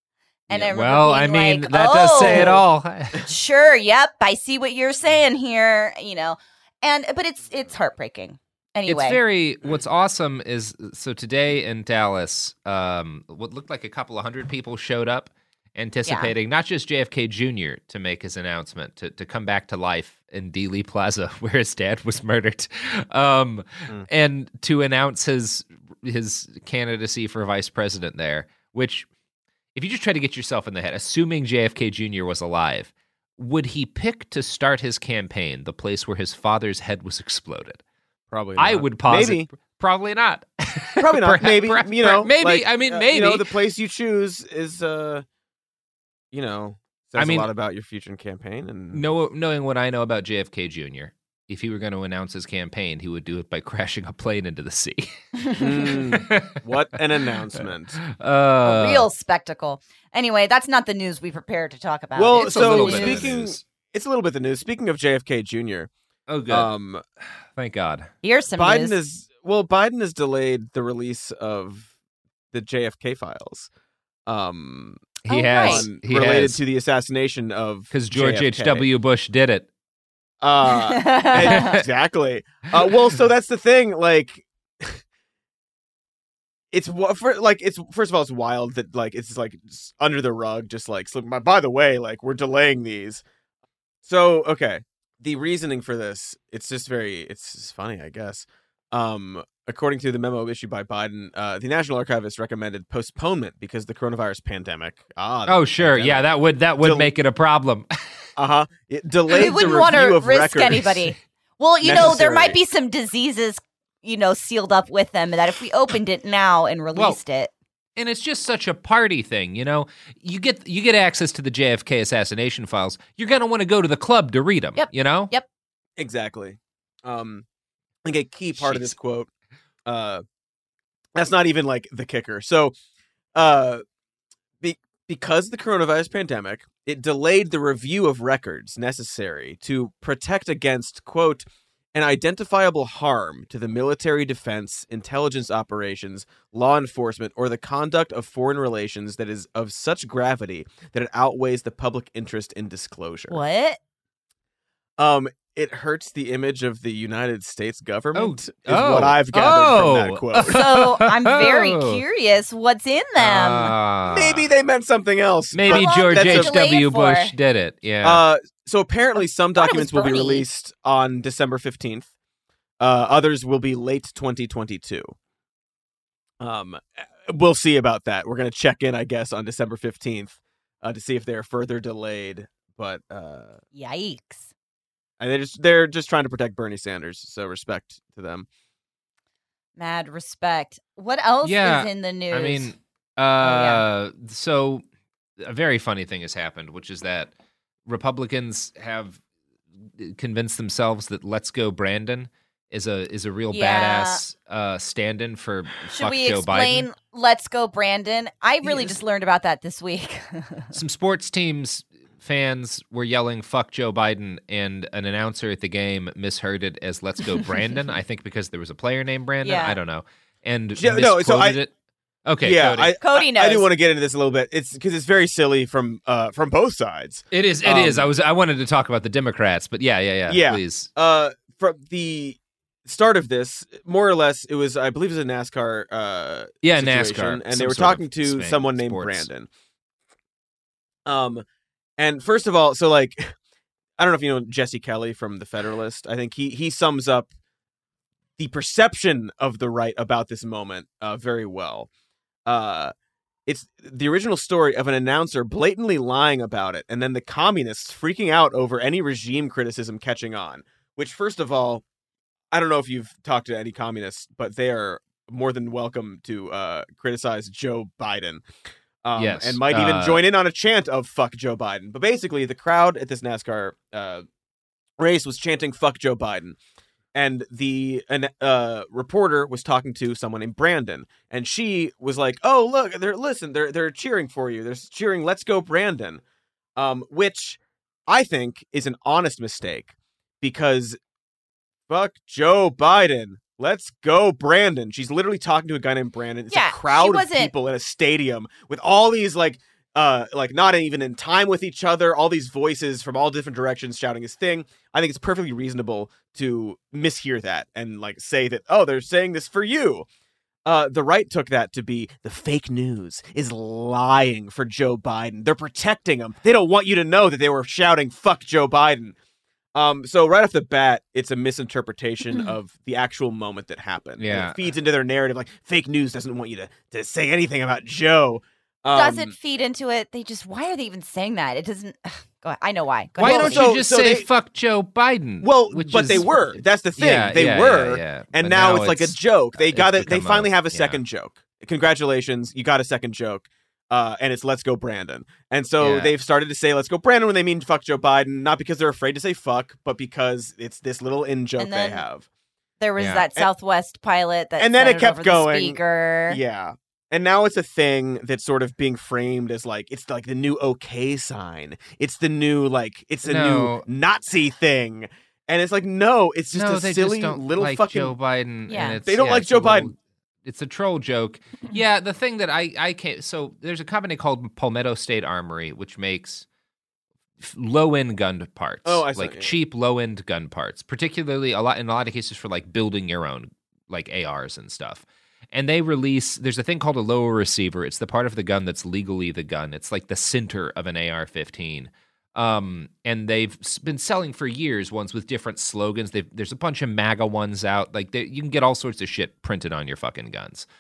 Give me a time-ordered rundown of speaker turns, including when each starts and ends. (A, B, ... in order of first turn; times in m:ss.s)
0:00.5-0:02.6 A
0:00.5-0:03.3 B
0:02.2-0:02.6 C
0:03.3-0:09.2 A
0:08.9-0:29.1 B
0:16.0-0:16.3 A
0:29.8-0:37.8 B
0:38.3-0:39.5 C
0:38.6-0:43.5 B
0:41.0-0:45.2 C
0:46.3-0:49.0 C
0:47.2-0:47.5 B
0:48.9-0:55.1 B
0:55.6-0:58.0 C
0:56.3-0:56.5 B
0:57.6-0:59.1 B
0:58.6-1:03.2 A
1:02.2-1:05.9 C
1:02.4-1:03.6 B
1:06.3-1:06.7 B
1:06.5-1:07.0 C
1:07.6-1:08.1 B
1:08.2-1:09.0 A
1:08.6-1:11.9 C
1:12.5-1:13.7 C
1:14.3-1:18.9 C
1:15.2-1:16.6 B
1:15.3-1:15.9 A
1:17.9-1:19.7 B
1:20.4-1:25.0 C
1:20.9-1:21.8 A
1:26.7-1:33.2 C
1:34.0-1:46.3 C
1:45.5-1:47.9 B
1:46.8-1:47.1 C
1:48.4-1:51.2 C
1:49.3-1:57.5 A
1:51.8-1:52.6 C
1:56.9-1:57.2 B
1:58.0-2:05.3 B
2:04.8-2:05.5 A
2:06.0-2:07.4 C
2:08.0-2:09.3 C
2:08.5-2:08.9 B
2:09.9-2:10.2 C
2:11.2-2:12.8 C
2:13.4-2:13.8 C
2:14.6-2:33.4 C
2:33.3-2:33.8 A
2:35.0-2:40.7 C
2:38.1-2:42.0 B
2:40.5-2:43.8 A
2:43.2-2:44.5 B
2:44.1-2:46.6 C
2:45.5-2:48.2 B
2:45.7-2:47.3 A
2:48.0-2:52.1 C
2:49.2-2:50.4 A
2:52.8-2:55.1 C
2:56.4-3:03.6 C
3:03.7-3:04.5 A
3:05.2-3:08.5 C
3:09.8-3:12.7 A
3:11.4-3:14.8 B
3:13.4-3:13.8 A
3:15.4-3:17.3 B
3:17.9-3:19.2 B
3:19.8-3:26.9 B
3:23.5-3:24.2 A
3:25.9-3:30.7 A
3:28.6-3:29.0 C
3:30.7-3:41.7 B
3:39.4-3:39.8 A
3:40.8-3:41.6 C
3:42.3-3:42.9 B
3:42.4-3:48.1 C
3:43.0-3:43.7 A
3:47.3-3:50.9 B
3:50.3-3:59.5 C
3:56.6-3:59.3 B
4:01.1-4:01.4 C
4:02.0-4:03.4 C
4:04.0-4:07.3 C
4:08.4-4:11.9 C
4:12.5-4:12.9 C
4:13.5-4:21.8 C
4:22.5-4:28.5 C
4:29.0-4:34.3 C
4:29.2-4:30.2 B
4:35.0-4:36.6 C
4:37.2-4:46.2 C
4:46.8-4:51.0 C
4:51.9-5:10.1 C
4:56.5-4:57.5 A
5:10.6-5:19.2 C
5:19.8-5:29.3 C
5:24.2-5:24.6 B
5:28.9-5:33.7 A
5:33.2-5:34.2 C
5:33.2-5:41.0 B
5:35.4-5:52.2 C
5:45.8-5:46.1 B
5:51.6-5:52.0 A
5:52.8-5:56.4 A
5:53.0-5:53.2 B
5:54.6-6:08.2 C
6:03.2-6:03.9 B
6:06.5-6:16.5 B
6:08.7-6:09.0 A
6:08.7-6:09.9 C
6:17.4-6:40.7 B
6:18.8-6:19.5 C